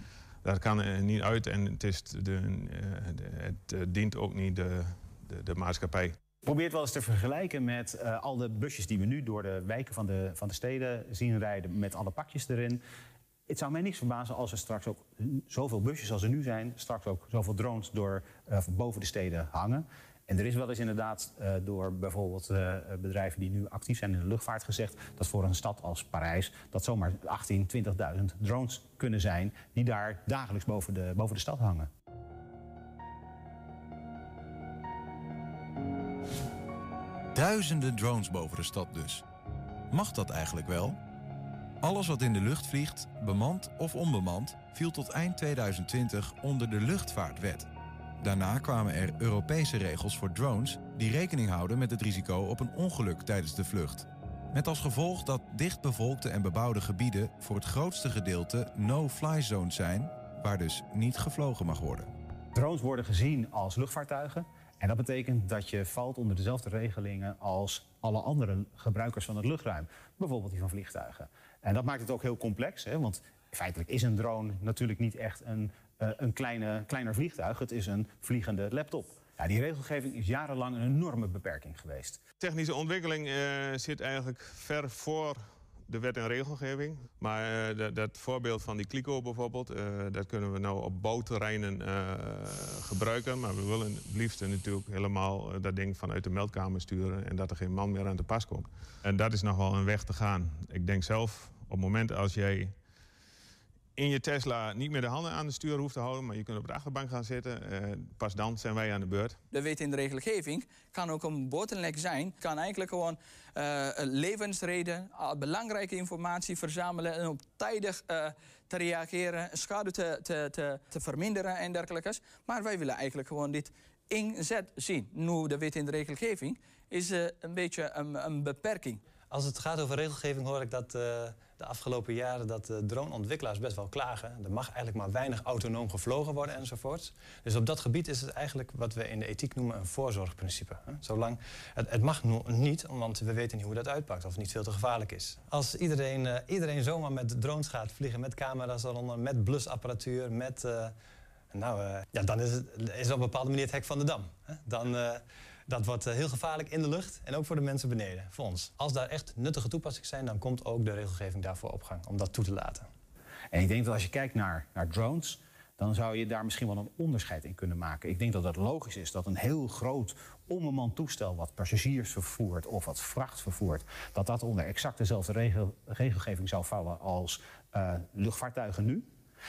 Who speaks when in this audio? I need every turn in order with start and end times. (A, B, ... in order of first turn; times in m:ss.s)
0:00.4-0:06.2 A
0:06.4-0:12.8 B
0:13.5-0:31.9 B
0:37.3-0:39.2 C
0:39.9-0:41.0 C
0:41.8-0:47.7 C
0:48.2-1:02.1 C
1:02.6-1:22.2 B
1:22.4-1:42.8 A
1:44.0-1:49.4 A
1:49.5-2:09.0 D
2:09.3-2:30.9 E
2:31.5-2:42.9 E
2:43.5-2:59.1 B